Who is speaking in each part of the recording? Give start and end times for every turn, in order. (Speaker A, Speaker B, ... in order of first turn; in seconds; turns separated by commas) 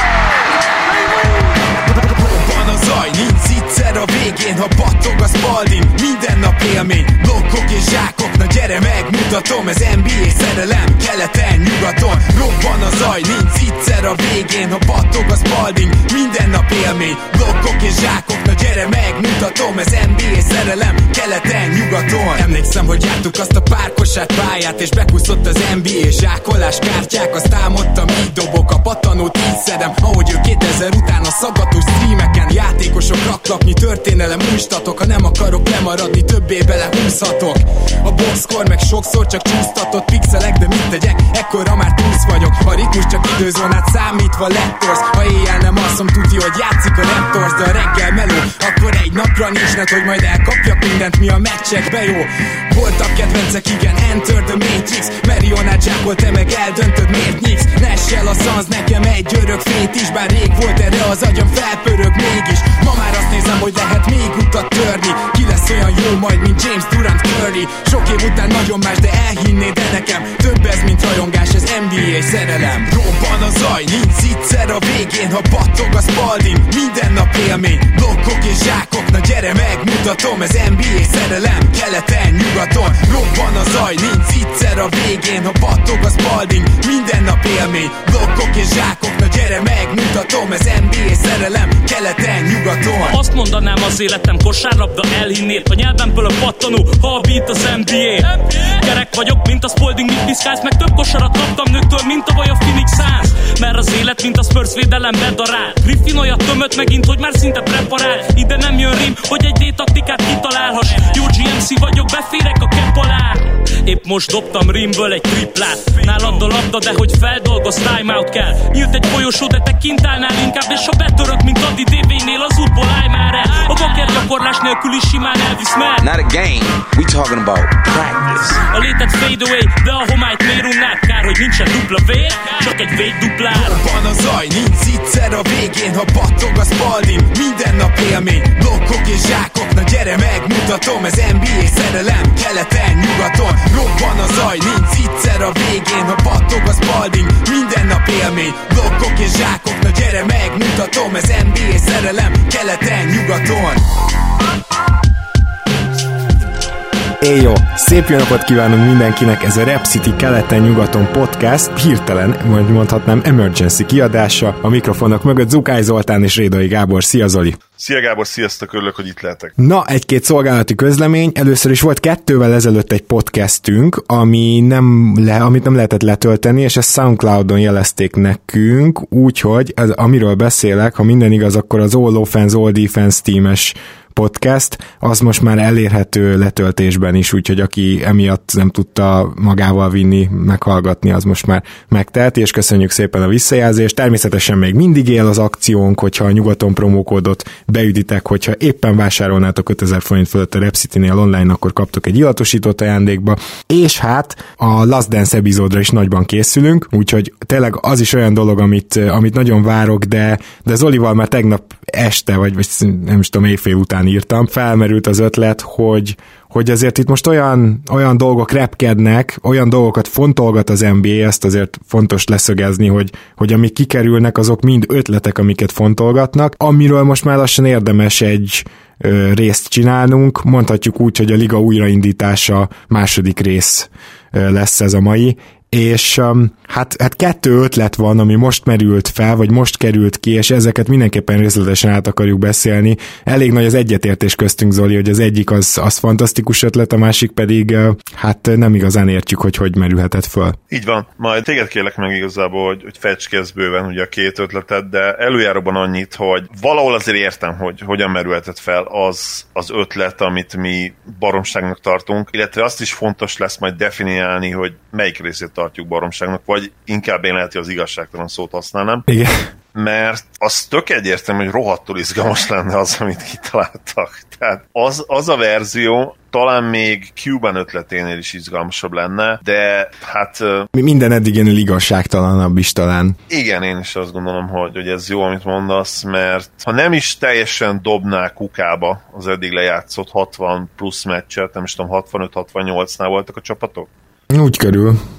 Speaker A: 1.9-93.2, Speaker B: 93.1-126.0, Speaker C: 126.0-128.6, Speaker B: 128.7-133.8, Speaker A: 133.5-153.8, Speaker D: 157.2-167.6, Speaker E: 167.8-169.5, Speaker D: 169.6-250.6, Speaker E: 250.7-269.1, Speaker D: 269.1-269.4, Speaker E: 269.8-280.7, Speaker D: 280.7-283.2, Speaker E: 283.3-293.9, Speaker D: 294.3-295.0